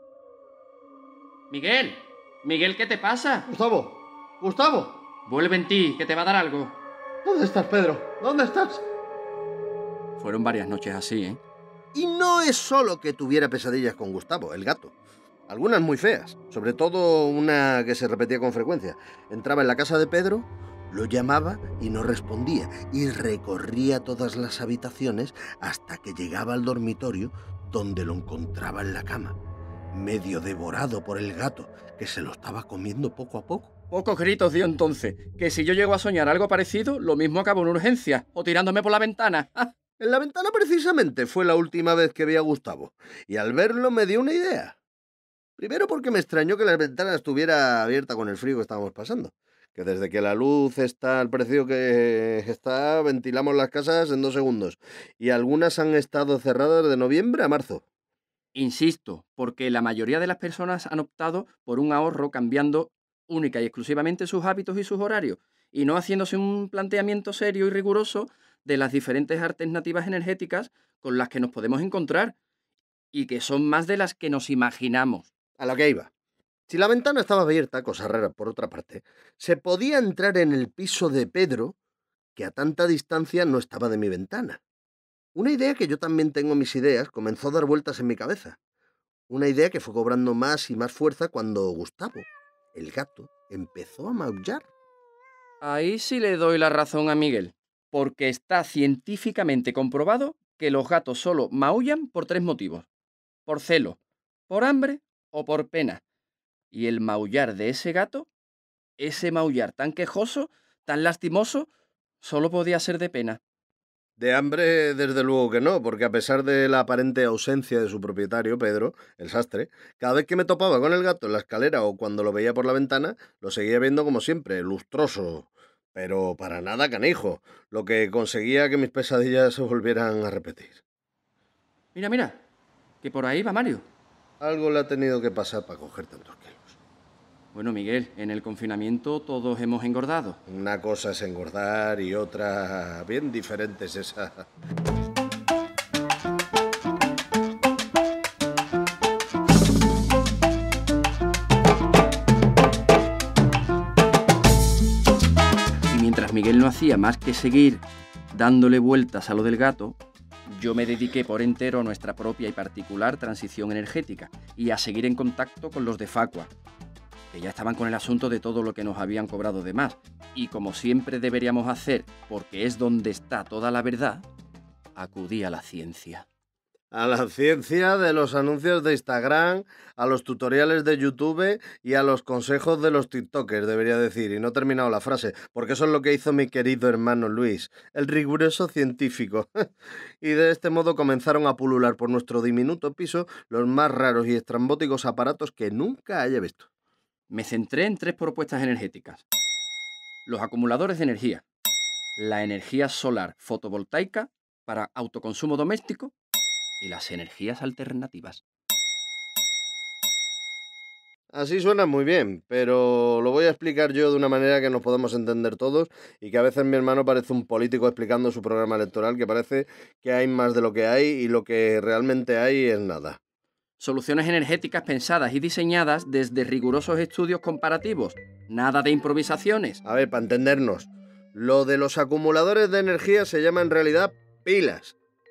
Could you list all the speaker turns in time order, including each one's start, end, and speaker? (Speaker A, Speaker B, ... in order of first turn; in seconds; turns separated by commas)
Speaker A: 1.5-3.5, Speaker B: 3.5-5.0, Speaker A: 5.3-6.8, Speaker B: 7.2-8.8, Speaker A: 10.2-11.4, Speaker B: 11.9-14.9, Speaker B: 15.5-29.4, Speaker B: 29.9-33.7, Speaker A: 33.9-39.7, Speaker B: 40.0-44.8, Speaker B: 45.6-57.8, Speaker A: 58.5-72.3, Speaker A: 73.1-75.3, Speaker B: 75.6-76.1, Speaker B: 76.7-81.8, Speaker B: 82.3-84.6, Speaker B: 85.3-88.6, Speaker B: 89.3-94.7, Speaker A: 95.6-102.9, Speaker A: 103.5-104.0, Speaker A: 104.5-106.0, Speaker A: 106.7-108.3, Speaker A: 109.0-111.7, Speaker A: 112.2-113.4, Speaker B: 114.2-130.8, Speaker A: 131.9-132.4, Speaker A: 133.0-133.8, Speaker B: 134.4-136.8, Speaker A: 137.5-140.4, Speaker B: 140.5-144.4, Speaker A: 155.9-166.5, Speaker A: 167.3-174.2, Speaker A: 174.9-176.2, Speaker B: 176.9-189.7, Speaker B: 190.2-196.7, Speaker A: 197.3-199.2, Speaker A: 200.2-201.4, Speaker A: 202.2-206.1, Speaker A: 206.8-208.4, Speaker B: 211.3-223.2, Speaker A: 223.8-229.8, Speaker B: 229.8-234.9